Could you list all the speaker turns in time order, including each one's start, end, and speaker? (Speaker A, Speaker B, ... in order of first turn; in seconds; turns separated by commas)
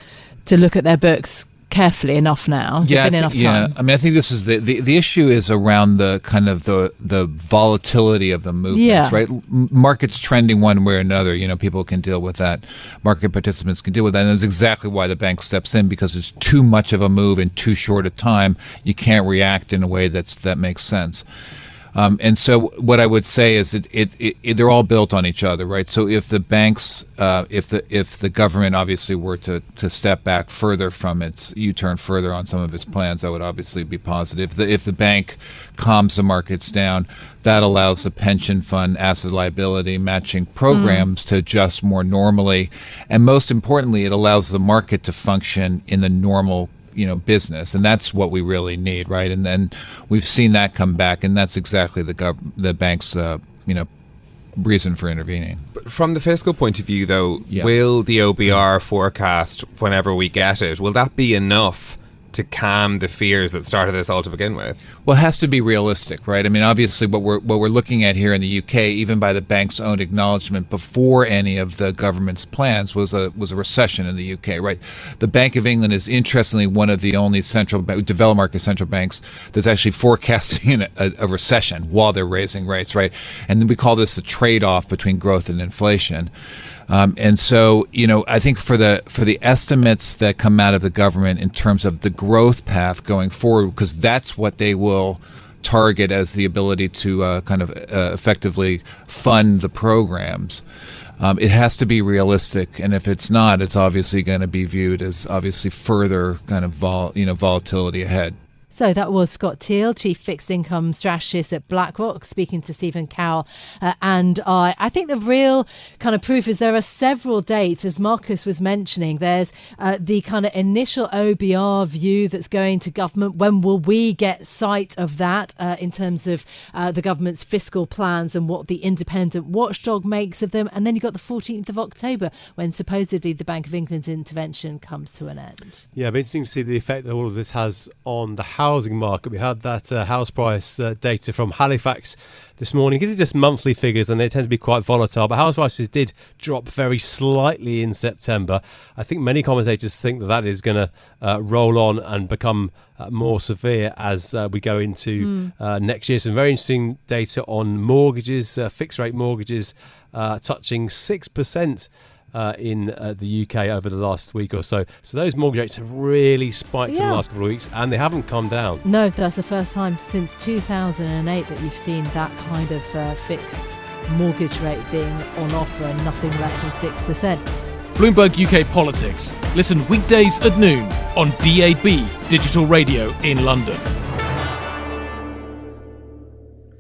Speaker A: 0.5-3.7, Speaker B: 2.8-21.2, Speaker A: 8.7-9.2, Speaker B: 21.9-53.9, Speaker A: 40.7-41.1, Speaker B: 54.6-55.6, Speaker C: 55.8-64.8, Speaker B: 65.0-86.3, Speaker B: 86.9-100.6, Speaker B: 101.2-108.4, Speaker A: 108.7-135.8, Speaker D: 135.9-168.8, Speaker A: 155.2-155.5, Speaker A: 166.9-167.2, Speaker A: 168.8-177.4, Speaker E: 178.0-183.9